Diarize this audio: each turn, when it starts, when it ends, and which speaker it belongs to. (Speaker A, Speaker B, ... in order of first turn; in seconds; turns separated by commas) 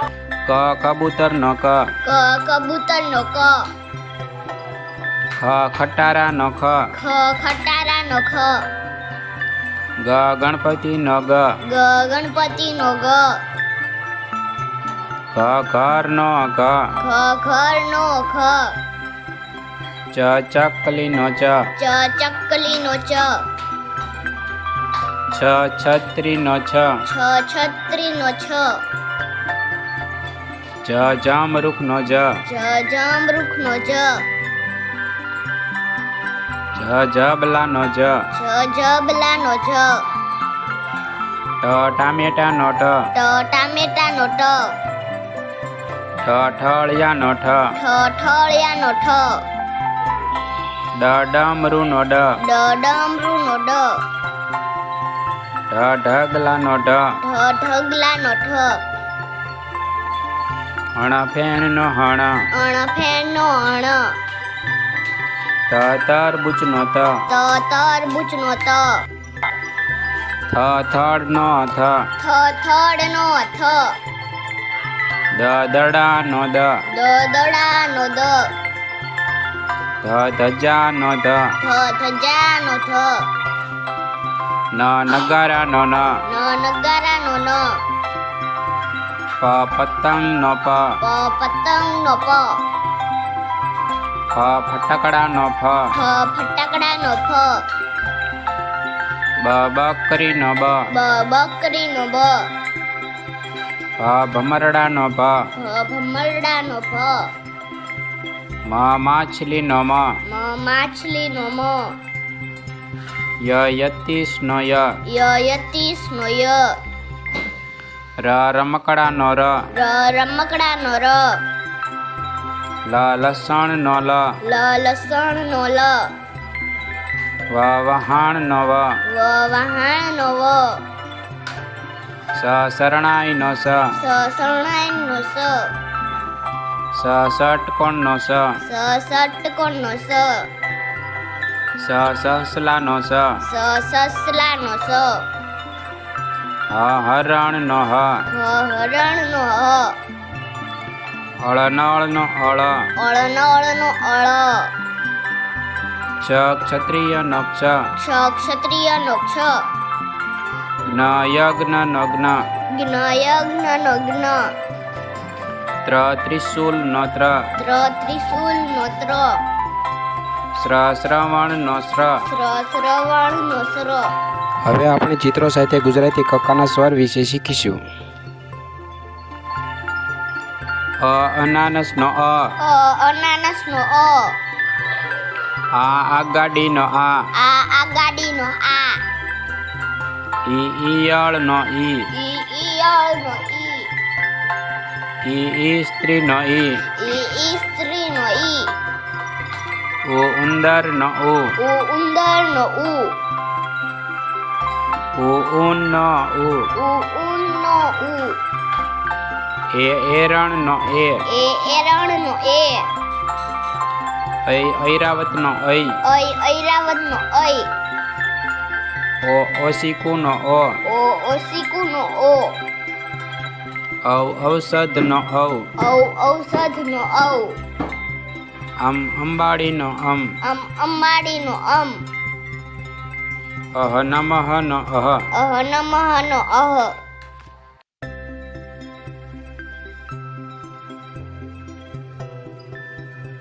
Speaker A: 0.5-1.8, Speaker B: 2.0-3.7, Speaker A: 5.4-6.9, Speaker B: 6.9-8.6, Speaker A: 10.0-11.4, Speaker B: 11.7-13.4, Speaker A: 15.3-16.9, Speaker B: 17.0-18.7, Speaker A: 20.1-21.7, Speaker B: 21.8-23.4, Speaker A: 25.3-26.9, Speaker B: 27.1-28.8, Speaker A: 30.8-32.4, Speaker B: 32.5-34.2, Speaker A: 36.7-38.2, Speaker B: 38.4-40.0, Speaker A: 41.6-43.0, Speaker B: 43.1-44.7, Speaker A: 46.2-47.7, Speaker B: 47.8-49.4, Speaker A: 51.0-52.3, Speaker B: 52.4-54.0, Speaker A: 55.7-57.1, Speaker B: 57.2-58.8, Speaker A: 61.0-62.5, Speaker B: 62.5-64.2, Speaker A: 65.7-67.2, Speaker B: 67.3-69.0, Speaker A: 70.5-72.0, Speaker B: 72.2-74.0, Speaker A: 75.3-76.8, Speaker B: 76.9-78.5, Speaker A: 80.0-81.5, Speaker B: 81.6-83.3, Speaker A: 84.7-86.1, Speaker B: 86.3-87.8, Speaker A: 89.4-90.9, Speaker B: 91.0-92.6, Speaker A: 94.3-96.0, Speaker B: 96.0-97.6, Speaker A: 99.4-100.9, Speaker B: 100.9-102.5, Speaker A: 104.0-105.5, Speaker B: 105.6-107.3, Speaker A: 108.7-110.1, Speaker B: 110.3-111.9, Speaker A: 113.4-114.9, Speaker B: 115.1-116.8, Speaker A: 118.2-119.6, Speaker B: 119.7-121.4, Speaker A: 122.9-124.3, Speaker B: 124.5-126.1, Speaker A: 127.5-128.9, Speaker B: 129.1-130.8, Speaker A: 132.3-133.9, Speaker B: 133.9-135.7, Speaker A: 136.9-138.6, Speaker B: 138.7-140.5, Speaker A: 141.8-143.4, Speaker B: 143.5-145.2, Speaker A: 146.7-148.2, Speaker B: 148.3-149.9, Speaker A: 151.4-152.9, Speaker B: 153.0-154.7, Speaker A: 156.2-157.8, Speaker B: 158.0-159.6, Speaker A: 160.9-162.4, Speaker B: 162.7-164.5, Speaker A: 165.8-167.4, Speaker B: 167.6-169.4, Speaker A: 170.5-172.2, Speaker B: 172.3-174.1, Speaker A: 174.6-177.8, Speaker A: 181.0-182.5, Speaker B: 182.6-184.4, Speaker A: 185.7-187.2, Speaker B: 187.3-189.0, Speaker A: 190.4-192.1, Speaker B: 192.1-193.9, Speaker A: 195.2-196.8, Speaker B: 197.0-198.7, Speaker A: 200.1-201.5, Speaker B: 201.6-203.1, Speaker A: 205.2-206.7, Speaker B: 206.8-208.4, Speaker A: 209.7-211.2, Speaker B: 211.3-212.9, Speaker A: 214.4-216.0, Speaker B: 216.0-217.7, Speaker A: 219.2-220.8, Speaker B: 220.8-222.6, Speaker A: 224.0-225.7, Speaker B: 225.8-227.5, Speaker A: 228.8-230.3, Speaker B: 230.4-232.0, Speaker A: 233.7-235.2, Speaker B: 235.3-236.9